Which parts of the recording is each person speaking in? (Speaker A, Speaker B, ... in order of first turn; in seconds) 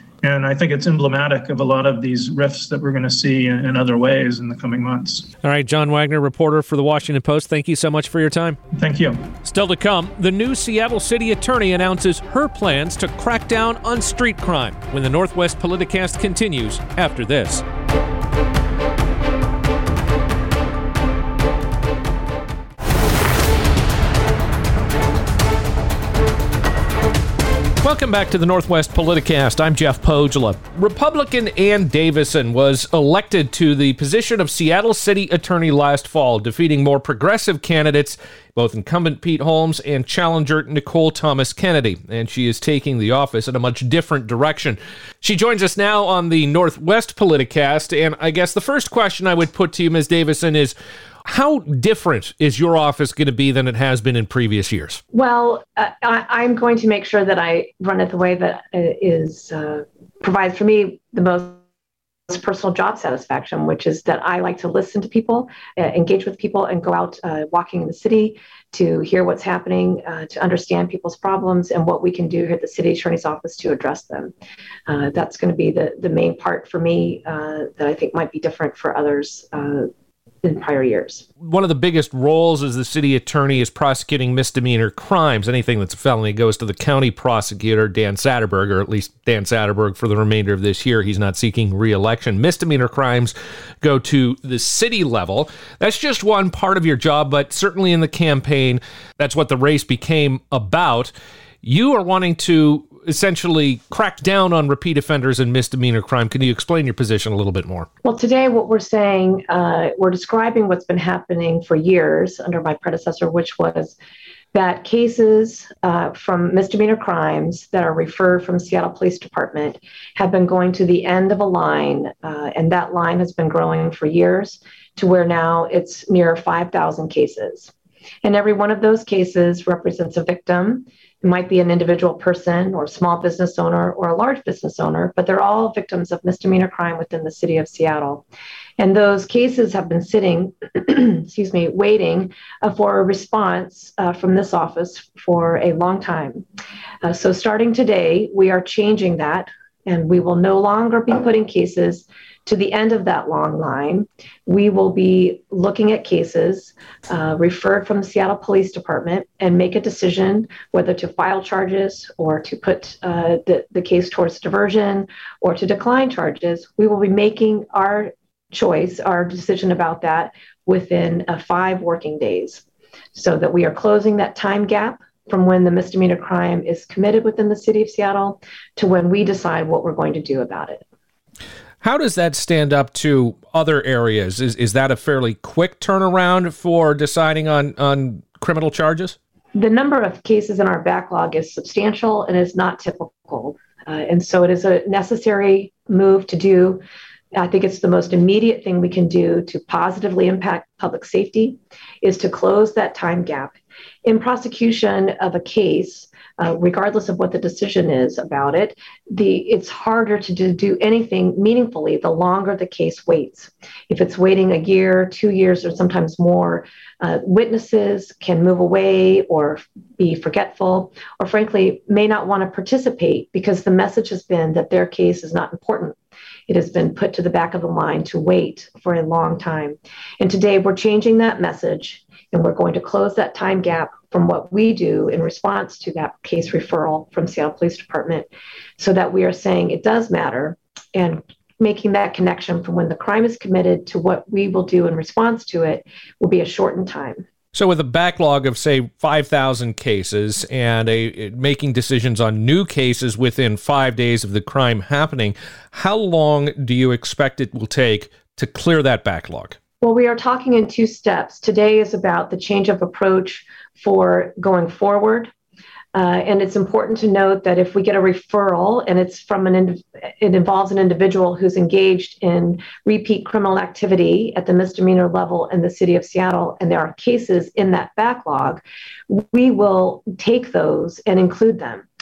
Speaker A: 0.2-5.3, 8.7-9.2
Speaker B: 5.4-8.6, 9.4-17.6, 27.8-55.0, 81.4-101.1, 101.6-107.9, 181.8-189.2, 247.5-259.6
Speaker C: 55.1-61.6, 62.3-74.3, 74.9-79.9, 80.4-81.2, 108.0-113.9, 114.5-127.7, 128.2-138.2, 138.8-146.4, 147.0-172.6, 173.1-180.8, 189.5-196.8, 197.3-226.0, 226.5-247.2, 259.8-265.3, 265.9-281.9